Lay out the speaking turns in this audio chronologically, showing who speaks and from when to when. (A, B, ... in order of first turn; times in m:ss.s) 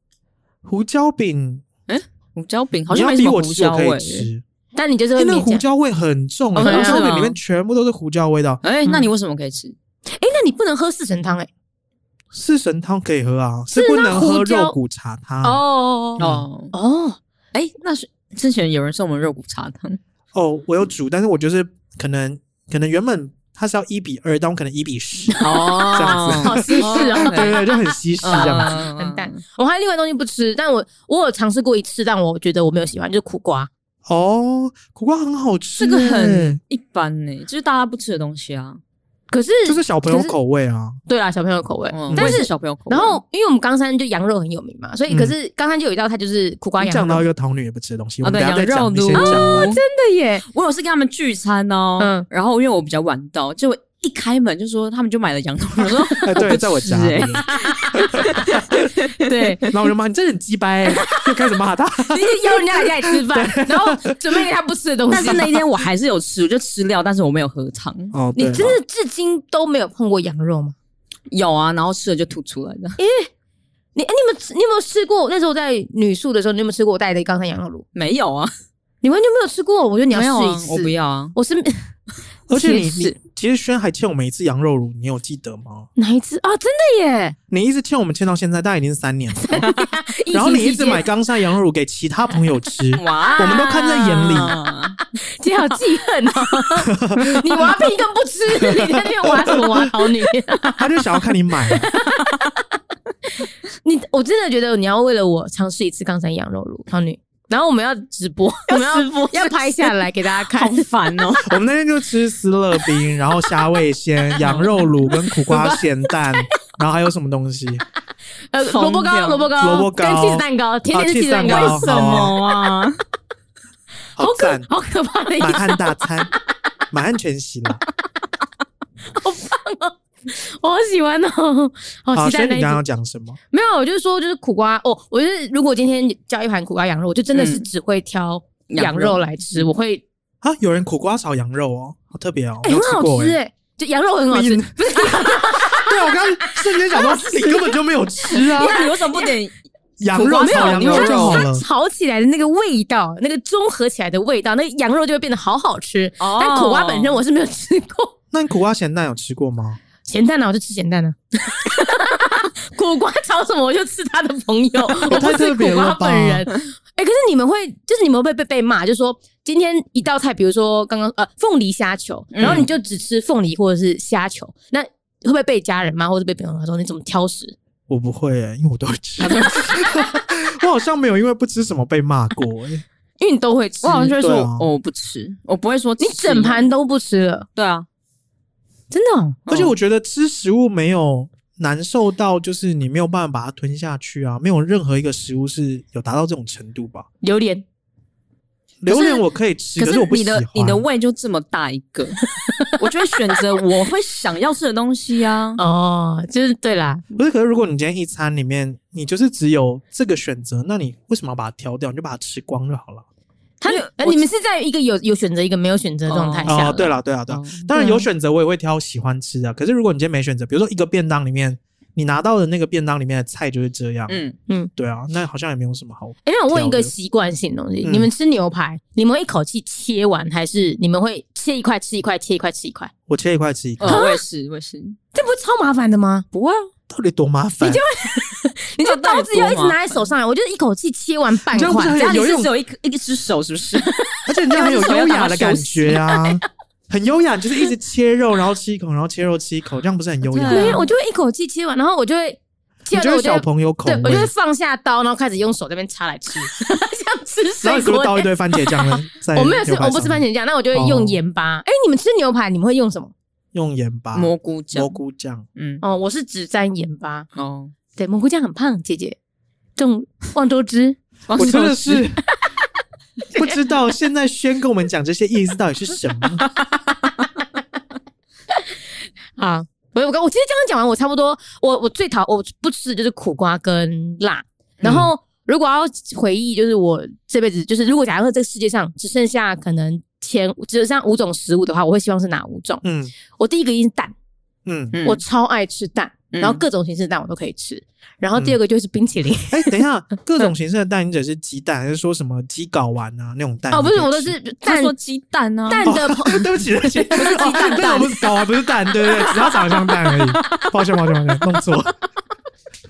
0:00.6-0:01.6 A
0:01.9-0:04.3 B
0:02.9-0:04.4 A
0:04.8-0:05.6 C
0:05.2-0:08.6 A
0:06.6-0:07.0 C
0:06.6-0:07.4 B
0:08.6-0:09.8 B
0:10.1-0:11.5 C
0:12.3-0:15.6 A
0:13.7-0:14.8 C
0:15.4-0:16.7 B
0:15.5-0:16.2 C
0:16.2-0:16.5 A
0:16.7-0:17.2 C
0:17.5-0:20.0 B
0:20.3-0:28.7 A
0:25.3-0:33.7 C
0:25.4-0:27.6 B
0:28.2-0:29.4 B
0:34.1-0:36.6 A
0:35.8-0:38.8 B
0:39.3-0:40.3 C
0:39.7-0:41.0 A
0:41.1-0:47.2 C
0:41.9-0:43.2 B
0:42.1-0:42.4 A
0:45.1-0:45.3 A
0:46.8-0:49.7 A
0:48.2-0:49.8 B
0:49.1-0:50.4 C
0:50.5-0:59.7 B
0:52.0-0:52.3 C
0:56.2-0:58.9 A
0:57.5-0:59.7 C
0:59.7-1:04.5 A
1:00.9-1:01.2 C
1:02.0-1:05.6 C
1:05.1-1:08.2 B
1:08.1-1:08.8 A
1:08.4-1:10.8 C
1:11.3-1:13.0 B
1:13.0-1:13.3 C
1:14.0-1:17.8 C
1:18.0-1:18.5 B
1:19.0-1:21.9 C
1:20.1-1:21.4 B
1:22.5-1:25.9 A
1:22.5-1:23.2 C
1:26.0-1:27.4 C
1:27.5-1:29.7 A
1:29.4-1:31.1 C
1:30.3-1:34.6 A
1:33.0-1:35.0 B
1:33.4-1:34.3 C
1:35.3-1:40.9 C
1:36.9-1:37.7 A
1:38.6-1:39.9 A
1:40.8-1:41.9 A
1:41.7-1:42.4 C
1:43.8-1:50.8 C
1:48.7-1:51.5 B
1:51.5-1:57.8 A
1:54.4-1:54.9 B
1:55.5-1:55.8 B
1:58.5-2:02.4 C
1:58.6-1:59.5 B
1:59.6-2:02.4 A
2:01.5-2:03.0 B
2:04.2-2:04.7 A
2:04.2-2:06.0 C
2:05.4-2:06.3 A
2:06.9-2:07.8 A
2:09.1-2:12.8 C
2:12.2-2:13.4 A
2:13.5-2:20.0 C
2:17.3-2:17.7 B
2:18.7-2:19.7 B
2:20.4-2:23.4 A
2:22.6-2:27.8 C
2:24.3-2:28.8 A
2:28.3-2:29.6 B
2:28.3-2:29.3 C
2:30.0-2:31.6 A
2:30.1-2:38.1 C
2:30.2-2:31.4 B
2:36.2-2:37.2 B
2:38.3-2:39.8 A
2:40.0-2:57.6 C
2:45.0-2:46.5 A
2:52.3-2:52.7 B
2:57.9-3:02.8 A
3:03.2-3:04.2 C
3:03.8-3:06.6 B
3:04.2-3:04.7 A
3:06.0-3:07.5 C
3:07.6-3:07.9 B
3:08.9-3:09.4 C
3:09.5-3:09.7 B
3:09.5-3:17.1 A
3:17.2-3:17.6 C
3:18.8-3:20.8 A
3:18.9-3:19.2 C
3:19.8-3:25.6 B
3:22.4-3:22.8 C
3:25.6-3:27.0 C
3:27.2-3:33.0 A
3:33.6-3:37.0 C
3:33.6-3:34.3 B
3:36.1-3:36.6 B
3:36.5-3:44.2 A
3:37.3-3:37.7 B
3:37.7-3:38.1 C
3:44.1-3:44.4 B
3:44.8-3:46.9 A
3:46.2-3:52.9 C
3:47.8-3:48.1 A
3:53.1-3:54.0 A
3:53.8-3:55.0 B
3:53.8-3:54.2 C
3:55.1-3:56.3 C
3:56.3-3:56.7 B
3:56.9-3:57.8 A
3:57.6-4:02.1 C
3:58.8-4:00.1 B
4:01.5-4:02.5 A
4:01.9-4:03.9 B
4:04.3-4:10.8 A
4:04.5-4:06.2 C
4:04.5-4:06.0 B
4:10.2-4:10.9 B
4:10.5-4:23.1 C
4:12.9-4:14.3 A
4:17.6-4:21.2 A
4:23.5-4:25.4 A
4:24.1-4:25.0 B
4:25.6-4:25.8 B
4:25.8-4:27.3 C
4:27.4-4:27.7 B
4:28.0-4:29.2 C
4:29.8-4:31.0 C
4:31.3-4:32.1 B
4:31.3-4:32.2 A
4:33.4-4:36.4 A
4:39.4-4:52.8 C
4:44.8-4:45.1 A
4:52.8-4:53.1 A
4:53.4-4:54.1 C
4:54.7-4:55.0 A
4:54.9-4:55.2 B
4:55.0-4:59.8 C
4:56.3-4:56.6 B
4:59.5-5:04.3 A
5:03.7-5:04.9 C
5:04.6-5:05.9 B
5:05.7-5:08.3 C
5:05.8-5:11.9 A
5:09.2-5:10.1 C